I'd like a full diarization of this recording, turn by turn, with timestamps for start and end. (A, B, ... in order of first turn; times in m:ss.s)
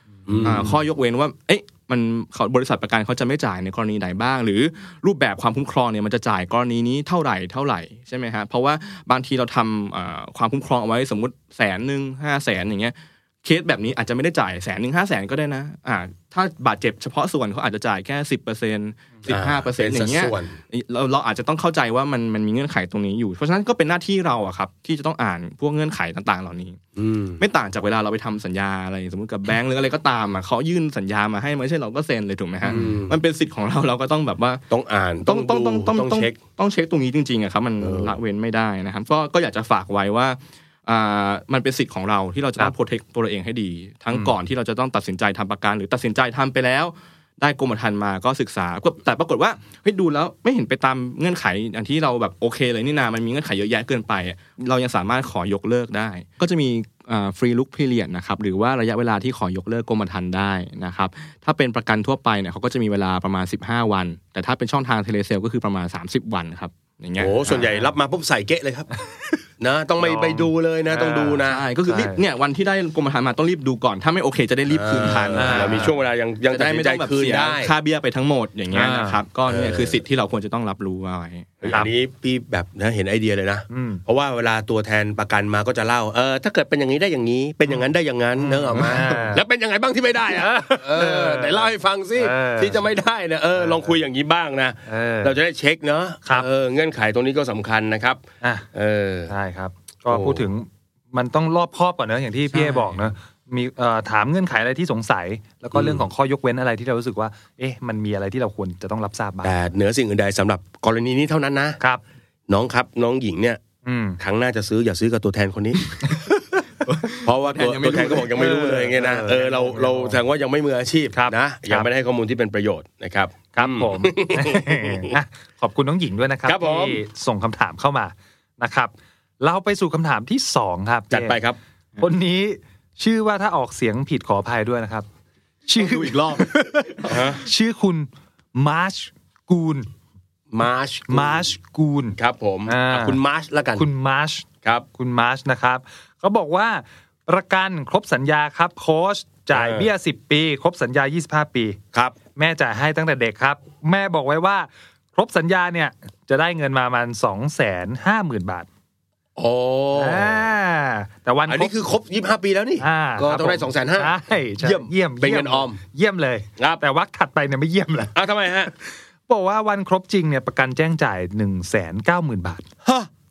0:00.2-0:00.7 A
0:00.3-0:00.8 B
0:00.4-0:26.8 C
0:19.2-0:20.6 B
0:27.0-0:27.4 B
0:27.4-0:34.6 C
0:32.6-0:33.2 B
0:32.7-0:33.0 A
0:34.7-0:36.4 B
0:35.2-1:07.4 C
0:37.8-0:38.2 B
1:07.2-1:08.9 B
1:07.5-1:07.9 A
1:09.6-1:11.6 B
1:10.0-1:10.4 A
1:10.9-1:15.9 C
1:11.9-1:12.2 A
1:14.7-1:17.7 B
1:15.4-1:15.9 A
1:16.5-1:21.8 C
1:18.7-1:19.2 A
1:19.5-1:20.0 B
1:21.6-1:38.2 B
1:23.7-1:24.0 A
1:28.4-1:29.4 A
1:30.3-1:32.8 A
1:34.9-1:35.3 A
1:38.7-1:39.3 B
1:39.3-1:49.6 A
1:40.1-1:40.5 B
1:45.7-1:46.0 B
1:49.4-1:51.8 B
1:52.5-1:53.6 B
1:53.8-1:54.2 A
1:54.2-1:55.9 B
1:56.9-1:58.3 C
1:57.1-2:05.2 B
1:58.3-2:00.2 A
2:01.1-2:01.9 A
2:03.5-2:11.4 A
2:06.4-2:07.0 B
2:11.1-2:11.6 B
2:12.0-2:15.1 A
2:15.7-2:19.9 A
2:15.8-2:16.4 C
2:17.0-2:17.4 B
2:20.5-2:21.5 B
2:21.1-2:23.2 A
2:22.2-2:23.8 B
2:23.8-2:31.8 A
2:29.5-2:29.9 B
2:32.4-2:38.7 A
2:39.4-2:40.4 B
2:40.0-2:41.7 A
2:41.5-2:45.8 B
2:42.8-2:48.1 A
2:48.1-2:48.7 B
2:49.3-2:52.6 A
2:52.8-2:53.1 B